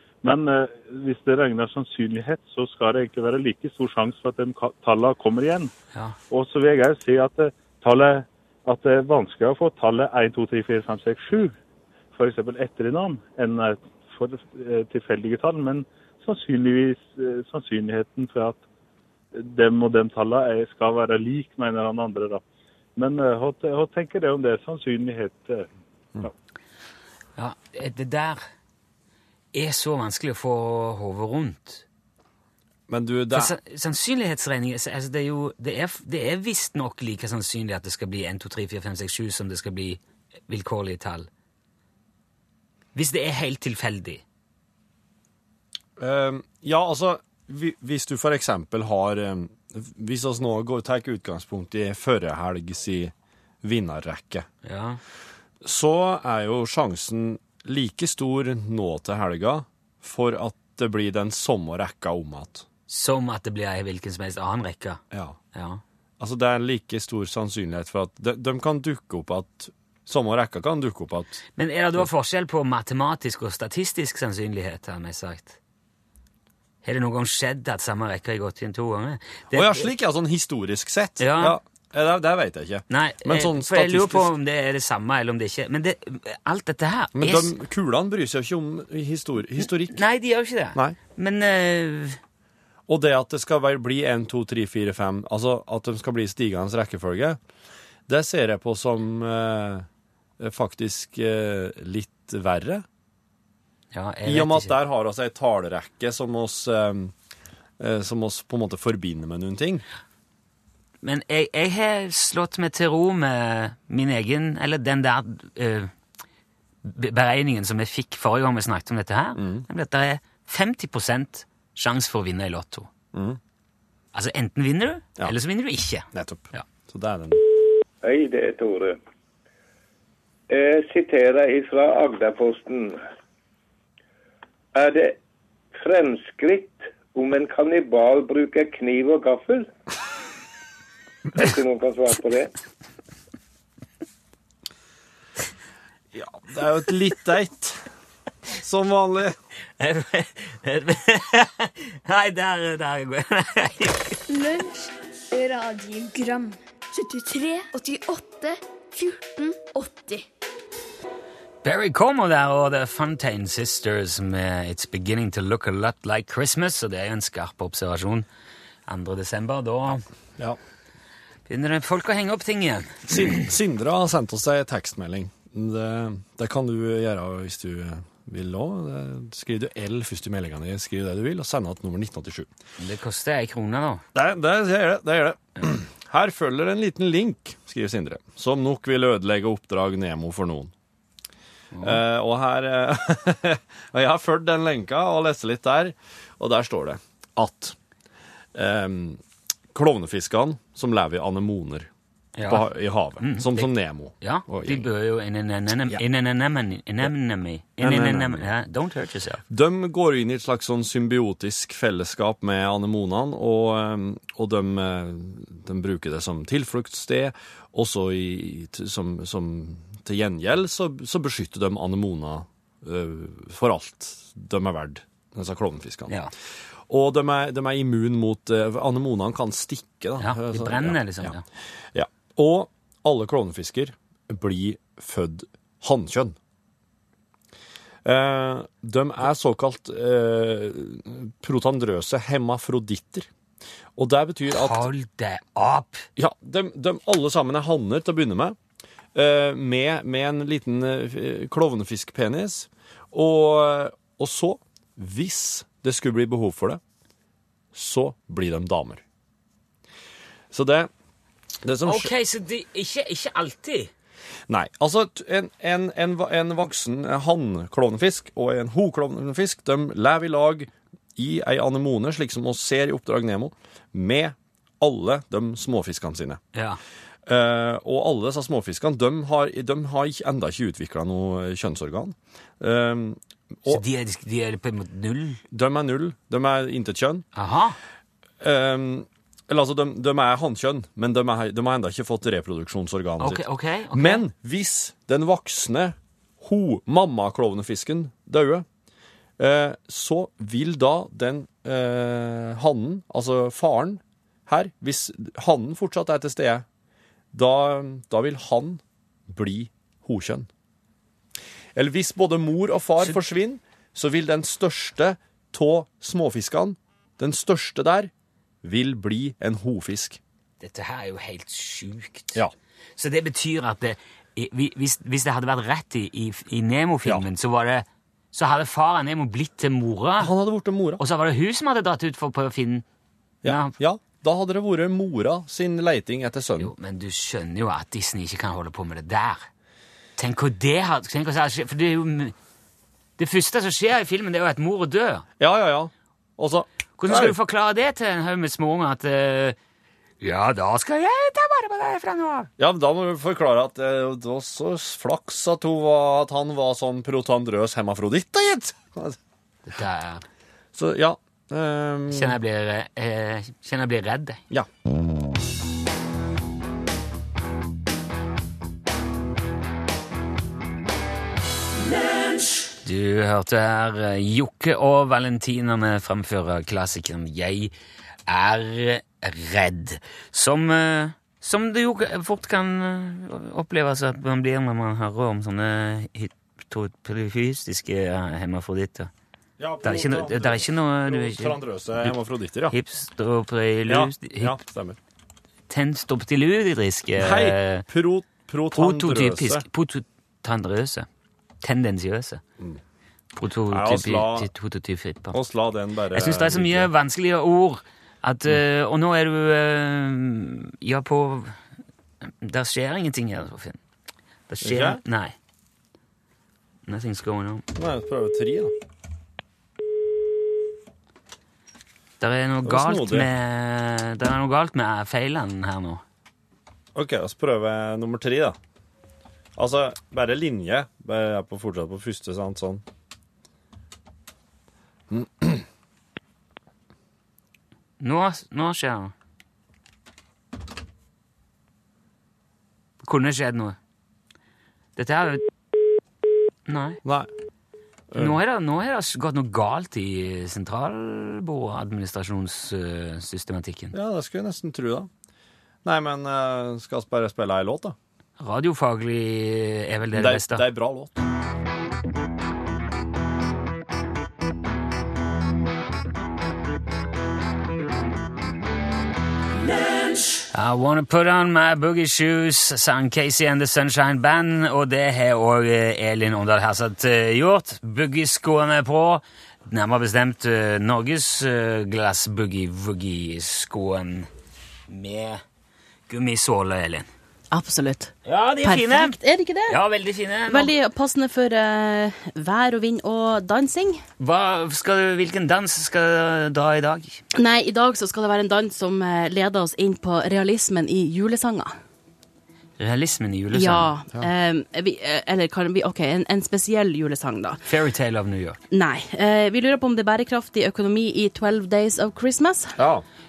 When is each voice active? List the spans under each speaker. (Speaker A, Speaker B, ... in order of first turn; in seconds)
Speaker A: 0.2-5.7, 6.3-11.5, 12.1-18.6, 19.3-22.4, 23.0-25.7
Speaker B: 27.4-28.4, 29.5-31.9, 33.3-41.3, 43.0-44.2, 54.6-55.0, 62.9-65.0, 65.5-65.8, 71.6-75.6, 76.8-79.9, 81.2-81.6, 82.9-87.5, 89.6-92.2, 103.9-104.8, 111.0-115.9, 116.8-122.9, 124.1-126.7, 149.8-154.2, 161.6-168.3, 168.9-170.0, 171.5-173.5, 182.8-184.0, 191.7-192.0, 202.4-209.4, 230.2-231.4, 244.5-246.1, 261.8-263.9, 276.5-276.8, 283.7-285.4, 287.4-287.8, 293.2-294.2, 320.6-322.4, 323.0-330.3, 331.0-332.9, 333.4-333.8, 336.6-339.5, 340.2-342.4, 343.2-345.3, 347.0-349.6, 350.2-352.5, 359.7-360.2, 362.1-364.4, 372.8-377.7, 378.3-389.1, 389.8-392.2, 392.7-394.6, 395.7-397.9, 398.7-401.1, 401.6-402.4, 403.4-405.4, 406.1-411.6, 412.2-413.8, 414.5-415.4, 416.9-417.7, 422.2-426.0, 438.0-439.1, 443.0-443.8, 445.0-445.5, 446.7-447.0, 448.1-453.9, 458.4-460.6, 470.5-484.3, 484.9-485.4, 486.1-487.1, 488.2-490.7, 494.2-497.2, 502.8-503.9, 507.6-508.6
Speaker C: 32.9-33.5, 46.0-54.5, 55.6-62.7, 65.1-65.4, 66.2-71.4, 79.5-84.3, 87.2-90.0, 92.9-97.4, 98.1-99.9, 100.4-102.8, 104.2-107.1, 107.8-109.8, 119.4-119.7, 123.1-123.4, 126.1-127.4, 146.1-147.9, 148.5-149.4, 173.1-182.5, 184.1-190.7, 191.8-197.8, 198.6-199.2, 199.7-201.9, 202.4-204.9, 207.8-208.5, 209.5-226.2, 226.9-231.4, 231.9-236.4, 238.1-243.3, 244.0-244.9, 246.2-248.6, 249.1-256.8, 257.7-259.0, 260.5-260.9, 261.6-262.1, 264.5-276.4, 277.3-283.8, 285.5-287.2, 288.4-298.6, 299.4-306.7, 307.3-310.5, 311.8-318.1, 318.6-320.2, 330.2-331.0, 333.4-336.7, 345.4-347.4, 352.6-359.2, 360.7-362.4, 389.6-392.8, 393.9-395.0, 397.2-399.6, 403.7-404.5, 405.3-406.9, 414.6-415.0, 417.8-418.7, 422.6-423.3, 426.9-428.6, 429.6-432.8, 435.1-435.7, 447.0-447.3, 448.1-448.4, 453.9-455.1, 455.8-458.0, 460.1-461.2, 512.8-513.0
Speaker D: 128.0-129.0, 130.5-133.0, 134.7-135.2, 135.7-139.7, 141.4-142.5
Speaker E: 154.3-160.3
Speaker F: 487.5-489.8, 490.5-494.0, 497.4-501.8, 503.5-507.6, 508.7-512.8